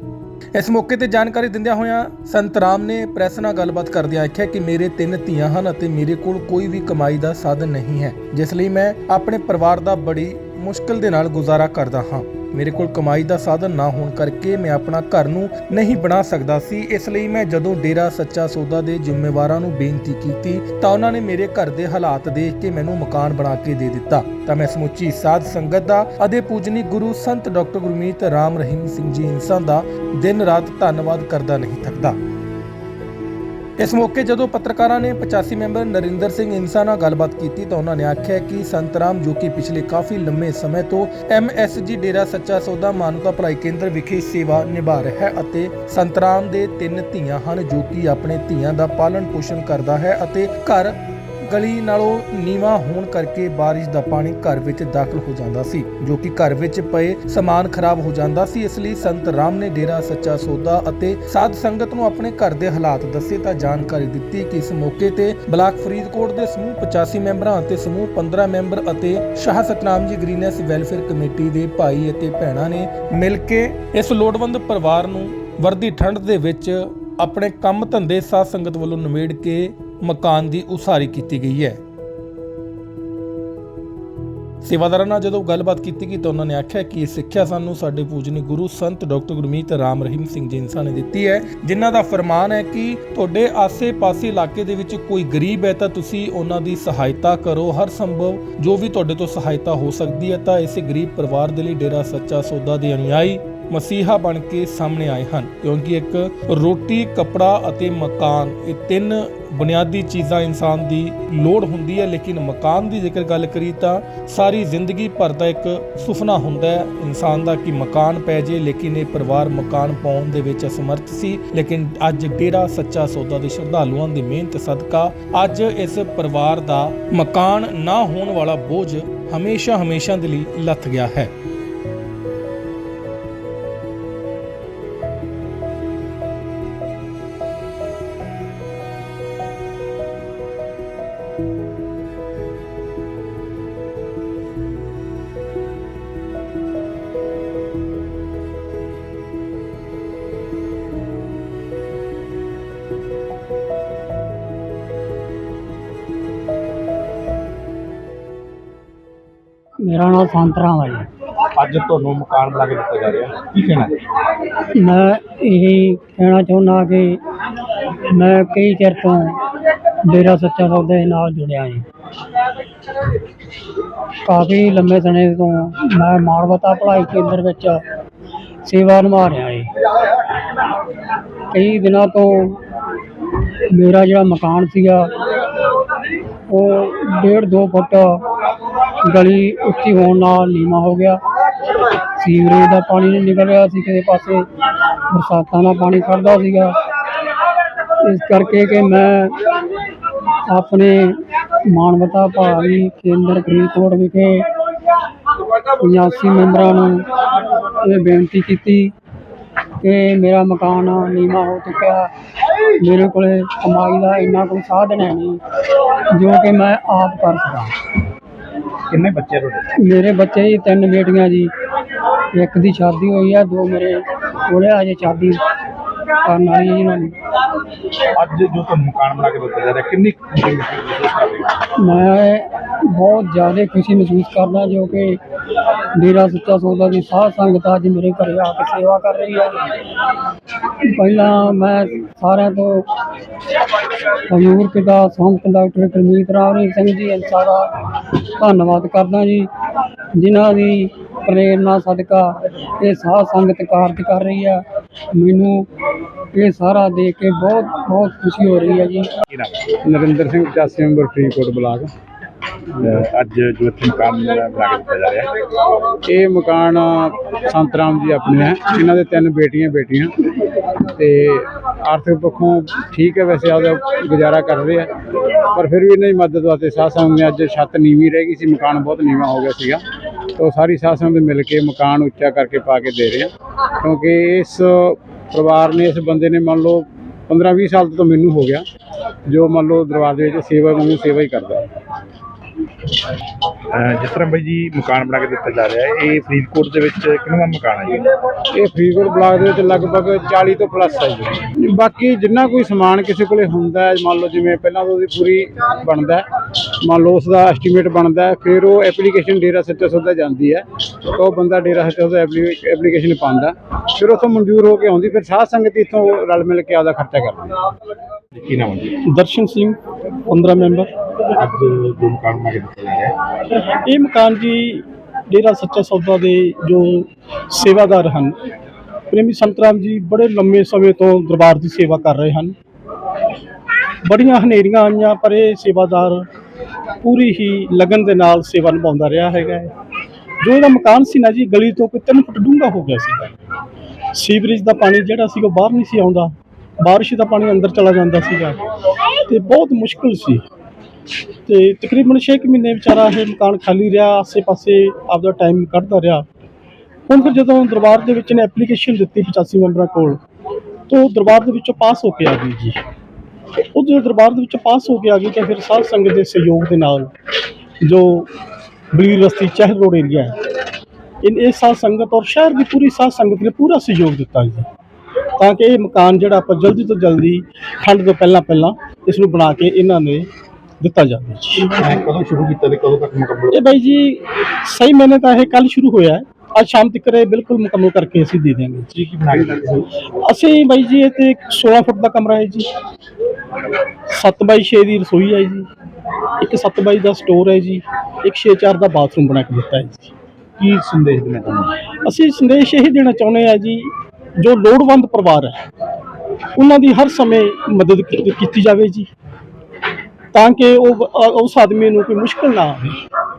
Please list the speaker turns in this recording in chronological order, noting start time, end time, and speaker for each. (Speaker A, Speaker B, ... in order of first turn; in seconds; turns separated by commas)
Speaker A: 0.5-32.2, Speaker A: 33.8-51.0, Speaker A: 51.5-81.8, Speaker A: 84.6-131.3, Speaker B: 159.8-161.1, Speaker C: 161.6-163.9, Speaker B: 164.7-167.2, Speaker B: 168.1-169.4, Speaker B: 170.0-171.8, Speaker B: 174.2-177.8, Speaker B: 178.6-179.7, Speaker B: 181.5-182.6, Speaker B: 183.7-185.1, Speaker B: 186.5-188.2, Speaker B: 189.0-191.2, Speaker B: 192.1-194.5, Speaker B: 195.1-196.8, Speaker B: 198.0-199.4, Speaker B: 200.5-204.5, Speaker B: 205.8-207.1, Speaker B: 207.7-208.9, Speaker B: 209.8-212.1, Speaker B: 212.8-215.4, Speaker B: 216.1-217.8, Speaker C: 218.9-219.6, Speaker B: 219.8-221.5, Speaker B: 222.3-225.4, Speaker B: 226.2-227.2, Speaker C: 228.2-231.6, Speaker B: 231.8-235.2, Speaker B: 235.9-239.6, Speaker B: 240.9-242.9, Speaker B: 244.3-249.5, Speaker B: 250.2-255.7, Speaker B: 256.3-259.1, Speaker D: 259.7-261.9, Speaker C: 262.9-265.3, Speaker D: 266.0-270.1, Speaker D: 270.9-274.9, Speaker D: 275.5-279.8, Speaker D: 280.4-288.7, Speaker D: 289.3-291.7, Speaker C: 293.8-298.1, Speaker D: 298.5-306.2, Speaker D: 306.8-317.7, Speaker C: 318.4-319.0, Speaker E: 319.1-320.9, Speaker C: 321.4-323.1, Speaker E: 323.9-328.4, Speaker E: 329.1-332.6, Speaker E: 334.1-336.2, Speaker E: 337.0-339.7, Speaker E: 340.4-343.3, Speaker E: 344.1-348.6, Speaker E: 349.2-350.4, Speaker E: 351.5-356.2, Speaker E: 357.1-360.2, Speaker E: 360.9-362.8, Speaker E: 363.8-367.1, Speaker E: 367.8-368.3, Speaker E: 368.9-370.4, Speaker E: 371.2-374.7, Speaker E: 375.4-380.3, Speaker E: 380.8-381.8, Speaker C: 381.8-383.5, Speaker E: 383.5-389.1, Speaker C: 389.1-389.9, Speaker E: 390.2-392.7, Speaker E: 394.1-395.7, Speaker E: 396.4-400.1, Speaker C: 400.6-401.7, Speaker E: 402.1-405.6, Speaker E: 406.6-409.1, Speaker E: 410.3-413.0